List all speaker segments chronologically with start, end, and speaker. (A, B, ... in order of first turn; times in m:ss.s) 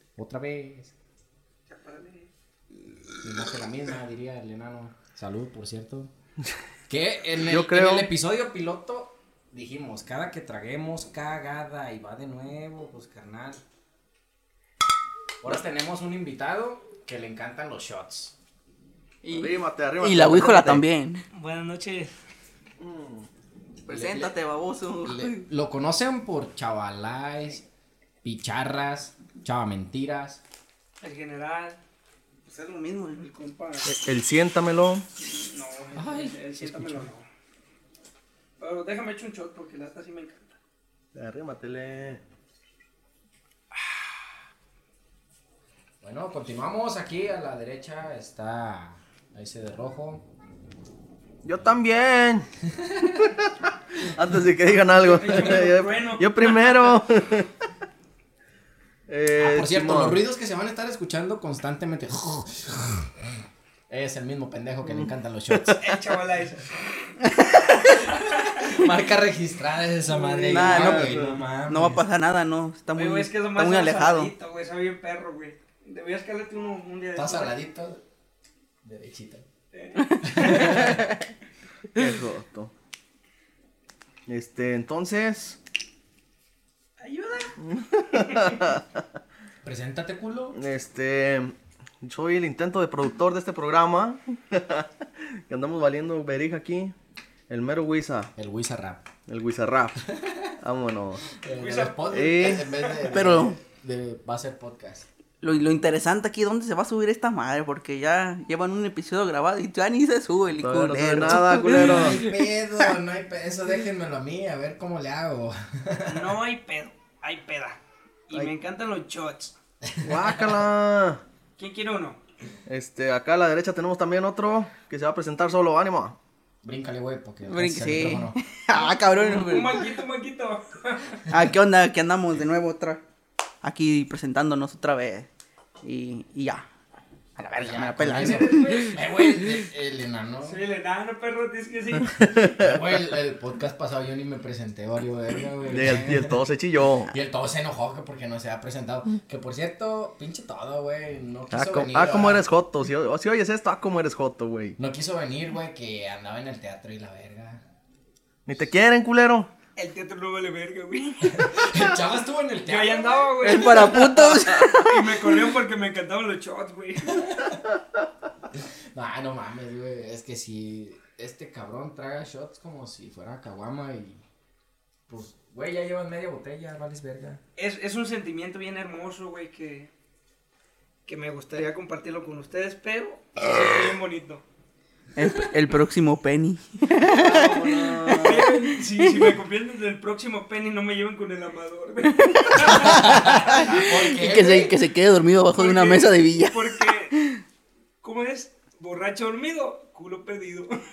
0:00.2-0:00.9 A
0:01.7-0:02.3 B
0:03.2-0:06.1 A
0:06.9-0:13.6 A
0:07.4-0:08.1 C
0:15.4-0:18.3 A
0:19.2-0:21.2 D
0:19.3-0:20.8 C
0:21.3-0:22.1 B
0:22.8-0:23.3 C
0:23.9-0:24.3 C
0:23.9-0:25.4 D
0:25.0-0:27.6 A
0:28.2-0:30.4 A
0:31.0-0:31.8 B
0:32.5-0:33.3 D
0:33.2-0:33.9 B
0:33.8-0:35.0 C
0:35.2-0:37.2 B
0:36.0-0:37.1 A
0:38.6-0:40.6 B
0:41.1-0:42.2 C
0:46.0-0:50.2 A
0:51.4-0:52.4 C
0:52.8-0:53.2 A
0:53.2-0:57.5 C
0:55.0-0:56.7 B
0:59.1-1:00.2 C
0:59.4-1:03.4 A
1:03.9-1:05.8 A
1:04.8-1:05.8 C
1:05.8-1:07.1 B
1:07.3-1:08.0 D
1:07.8-1:08.6 B
1:08.5-1:12.0 A
1:10.4-1:10.7 B
1:10.4-1:11.1 D
1:10.5-1:11.4 C
1:11.7-1:14.3 D
1:13.0-1:17.5 B
1:17.2-1:18.0 A
1:18.8-1:19.4 A
1:19.7-1:20.9 B
1:20.0-1:21.0 D
1:20.3-1:21.0 A
1:21.9-1:22.7 C
1:24.3-1:25.6 C
1:27.0-1:27.6 B
1:27.6-1:29.0 C
1:28.1-1:28.7 B
1:29.6-1:30.6 A
1:30.5-1:36.9 C
1:37.5-1:38.3 C
1:38.4-1:39.0 A
1:39.3-1:40.0 C
1:40.1-1:40.5 A
1:40.6-1:41.2 C
1:41.4-1:45.1 A
1:41.6-1:43.0 B
1:42.1-1:42.7 C
1:43.1-1:43.6 D
1:45.4-1:52.3 D
1:50.6-1:52.2 C
1:51.6-1:56.3 A
1:56.1-1:59.5 B
2:00.0-2:00.4 A
2:00.0-2:01.2 C
2:01.6-2:02.2 B
2:02.7-2:06.2 C
2:06.6-2:08.4 A
2:07.5-2:09.8 D
2:08.7-2:11.2 B
2:11.3-2:13.0 D
2:13.6-2:15.3 D
2:15.8-2:16.6 D
2:17.4-2:19.0 D
2:17.6-2:20.6 A
2:18.2-2:19.0 B
2:20.5-2:22.5 B
2:22.0-2:22.9 C
2:22.6-2:26.4 A
2:25.7-2:27.1 C
2:27.1-2:32.4 A
2:31.5-2:34.8 C
2:34.8-2:37.6 A
2:38.4-2:39.5 C
2:39.8-2:41.7 B
2:41.3-2:43.2 A
2:42.7-2:47.2 B
2:43.4-2:45.2 D
2:43.7-2:44.7 C
2:48.9-2:54.2 A
2:55.1-2:57.4 A
2:57.6-2:59.9 B
3:01.0-3:04.4 B
3:05.2-3:09.3 D
3:07.0-3:08.6 C
3:08.1-3:13.6 B
3:12.3-3:17.4 D
3:12.7-3:14.8 A
3:15.5-3:17.2 B
3:18.0-3:20.7 B